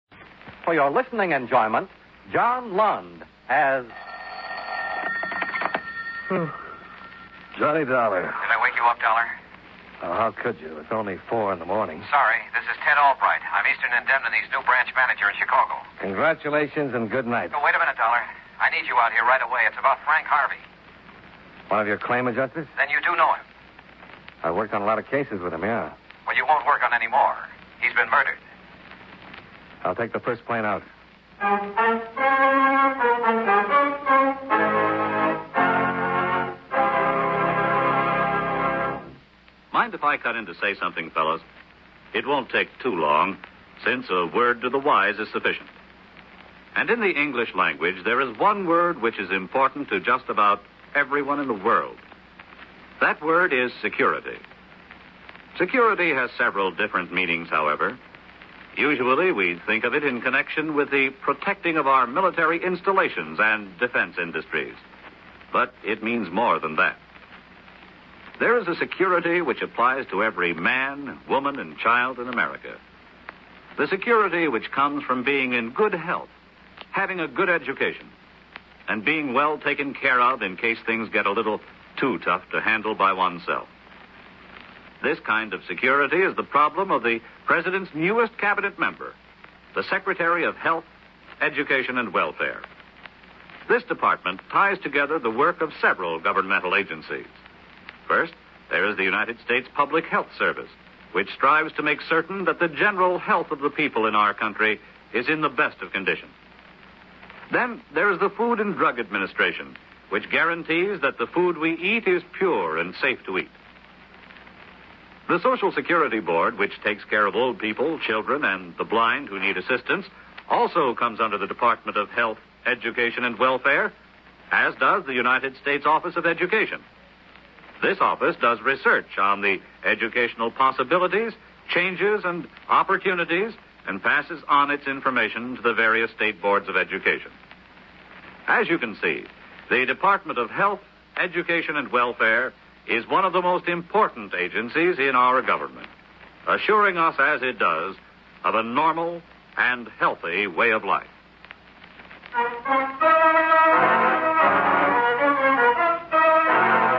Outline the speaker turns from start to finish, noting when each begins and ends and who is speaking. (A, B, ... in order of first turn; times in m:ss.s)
0:00.6-0:03.9 A
0:07.6-0:08.4 B
0:08.4-0:09.4 C
0:10.0-0:12.1 B
0:12.0-0:15.8 C
0:16.0-0:17.5 B
0:17.5-0:20.6 C
0:21.7-0:22.7 B
0:22.8-0:23.4 C
0:24.4-0:26.0 B
0:26.3-0:28.4 C
0:29.8-0:30.9 B
0:39.7-0:41.4 D
0:42.1-0:45.7 D
0:46.8-0:52.0 D
0:53.0-0:54.4 D
0:55.6-0:58.0 D
0:58.8-1:04.8 D
1:05.5-1:07.0 D
1:08.4-1:12.8 D
1:13.8-1:16.3 D
1:16.9-1:18.1 D
1:18.9-1:23.7 D
1:25.0-1:29.2 D
1:29.7-1:30.9 D
1:31.4-1:32.6 D
1:33.7-1:37.3 D
1:38.1-1:46.3 D
1:47.5-1:53.6 D
1:55.3-2:03.9 D
2:04.5-2:06.8 D
2:07.8-2:17.4 D
2:18.5-2:25.9 D
2:26.5-2:31.1 D